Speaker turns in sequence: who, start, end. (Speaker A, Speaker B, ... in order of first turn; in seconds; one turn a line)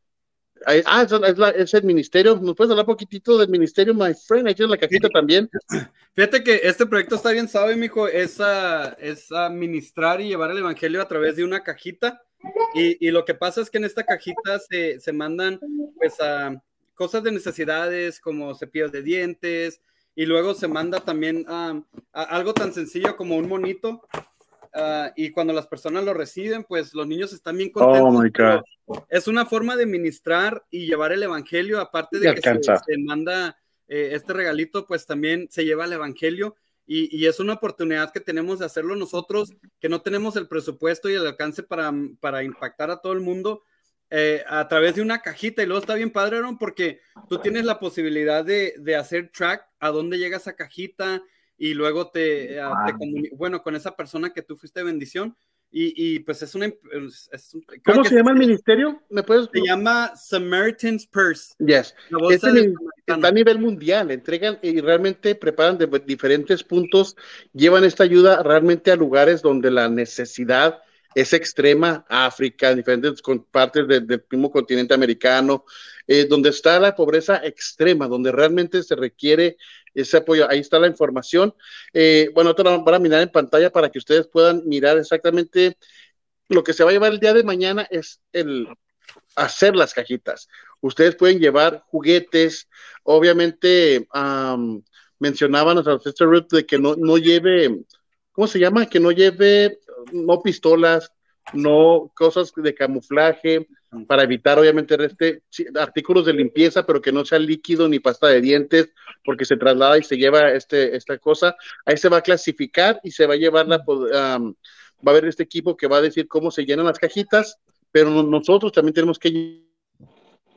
Speaker A: 0.7-5.5
Speaker B: 5.7-24.0
Speaker B: 24.7-58.5
Speaker A: 27.8-28.6
Speaker A: 32.2-32.8
Speaker A: 57.9-59.7
Speaker B: 59.5-61.5
Speaker A: 61.6-85.8
Speaker B: 62.1-63.3
Speaker A: 86.5-88.7
Speaker A: 89.4-97.8
Speaker A: 98.3-119.7